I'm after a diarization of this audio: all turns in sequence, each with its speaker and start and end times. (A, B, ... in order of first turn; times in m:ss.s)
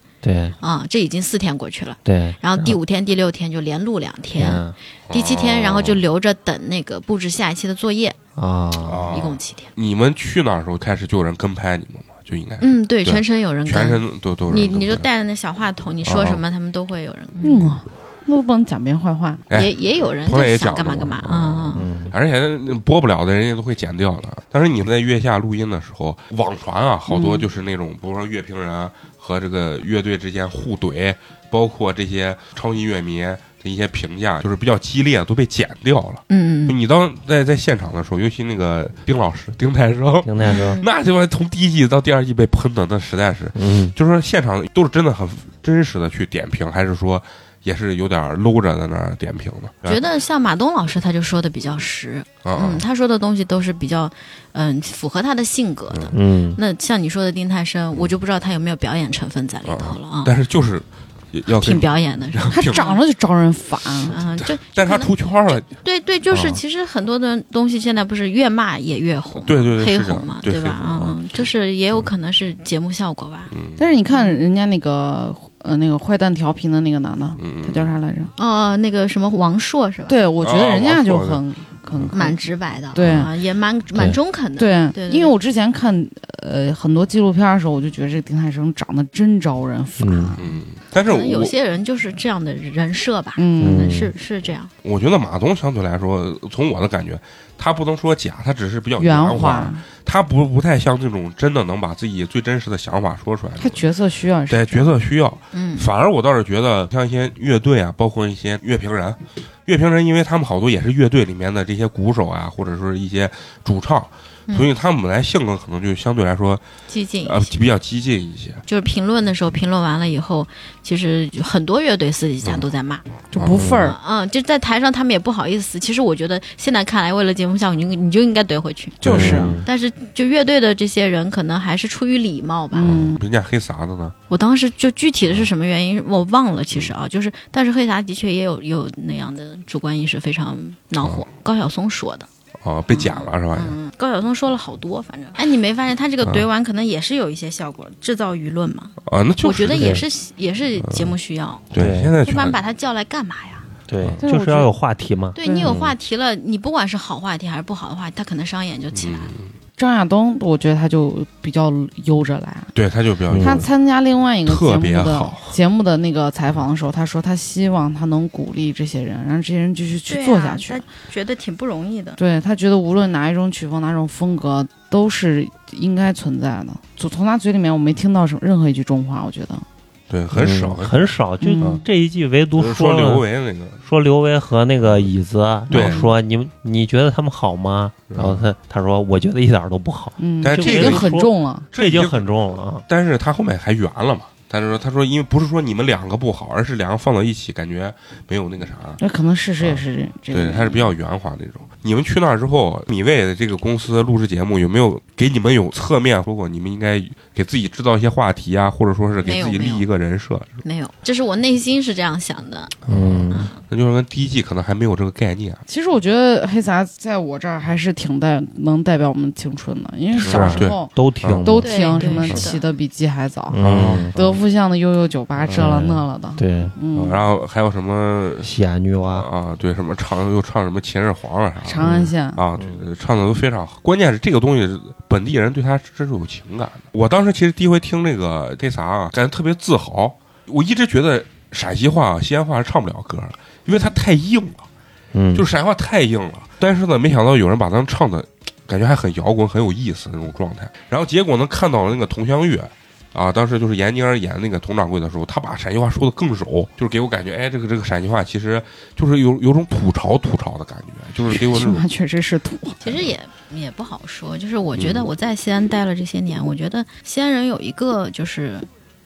0:00.2-0:00.6 A
0:00.6-0:08.2 B
0:02.0-0:02.8 A
0:04.4-0:04.8 A
0:05.1-0:06.0 C
0:08.4-0:09.2 A
0:08.8-0:15.1 C
0:09.0-0:09.7 B
0:12.6-0:17.8 B
0:16.0-0:16.4 C
0:17.4-0:19.4 D
0:19.5-0:50.0 C
0:19.5-0:21.9 B
0:21.8-0:22.1 A
0:27.1-0:27.4 B
0:36.3-0:36.8 B
0:40.2-0:40.8 A
0:40.4-0:40.9 B
0:43.6-0:43.9 A
0:49.9-1:00.3 B
0:52.4-0:52.8 C
0:55.9-0:56.2 C
0:56.1-0:56.6 A
0:59.6-1:02.9 C
1:01.5-1:03.0 B
1:02.5-1:04.2 D
1:04.1-1:05.7 C
1:04.1-1:13.5 B
1:06.3-1:06.6 C
1:09.4-1:11.2 C
1:13.5-1:13.8 C
1:13.8-1:18.3 D
1:14.1-1:14.4 B
1:17.4-1:17.9 C
1:18.4-1:20.2 B
1:20.1-1:22.4 D
1:20.4-1:21.4 C
1:22.1-1:25.3 B
1:22.9-1:23.3 D
1:24.6-1:30.5 D
1:30.0-1:30.4 A
1:30.4-1:31.6 C
1:31.0-1:34.7 B
1:33.4-1:34.0 D
1:33.6-1:34.1 A
1:34.8-1:43.8 C
1:39.0-1:39.8 D
1:43.6-1:44.9 D
1:44.5-1:56.6 C
1:45.5-1:45.9 B
1:54.5-1:54.7 B
1:56.9-1:57.5 B
1:57.2-1:58.6 C
1:58.7-2:03.0 B
2:03.3-2:04.0 D
2:03.4-2:03.7 C
2:03.5-2:03.9 A
2:03.8-2:09.0 B
2:09.0-2:09.6 C
2:09.0-2:09.6 D
2:09.0-2:09.7 A
2:09.6-2:12.9 B
2:12.7-2:13.2 D
2:12.8-2:14.2 C
2:14.3-2:22.3 B
2:21.0-2:21.2 C
2:22.6-2:23.8 C
2:22.9-2:31.7 B
2:29.0-2:30.1 C
2:29.7-2:30.0 A
2:30.8-2:31.1 C
2:31.7-2:32.6 C
2:31.8-2:32.1 A
2:32.2-2:33.6 B
2:33.9-2:36.0 A
2:34.2-2:34.7 D
2:35.4-2:39.3 B
2:35.4-2:35.8 D
2:38.9-2:39.5 C
2:39.8-2:42.7 D
2:42.7-2:43.7 C
2:43.3-2:43.7 A
2:43.4-2:50.8 D
2:44.5-2:45.6 C
2:50.1-2:52.2 B
2:52.2-2:59.6 D
3:00.1-3:01.8 C
3:00.3-3:03.3 A
3:01.4-3:01.8 D
3:02.6-3:03.8 C
3:03.8-3:12.8 A
3:04.8-3:05.1 C
3:05.7-3:06.1 C
3:05.7-3:06.1 D
3:08.1-3:08.5 C
3:10.2-3:11.7 D
3:10.4-3:11.2 C
3:11.7-3:12.3 C
3:12.9-3:19.0 C
3:19.0-3:20.9 D
3:19.6-3:30.6 C
3:29.2-3:29.9 B
3:30.6-3:32.7 B
3:32.9-3:35.6 C
3:32.9-3:33.5 A
3:33.3-3:33.6 B
3:35.7-3:47.2 D
3:40.2-3:41.5 C
3:40.2-3:42.1 A
3:41.6-3:42.7 B
3:43.5-3:44.2 A
3:43.6-3:44.4 C
3:45.4-3:45.8 C
3:45.5-3:46.8 A
3:47.0-3:48.5 C
3:48.4-3:49.3 A
3:49.1-4:04.7 C
3:51.6-3:52.4 D
3:51.8-3:52.8 A
4:05.1-4:05.4 A
4:05.3-4:21.9 C
4:21.3-4:22.8 D
4:22.8-4:28.7 B
4:24.8-4:25.1 C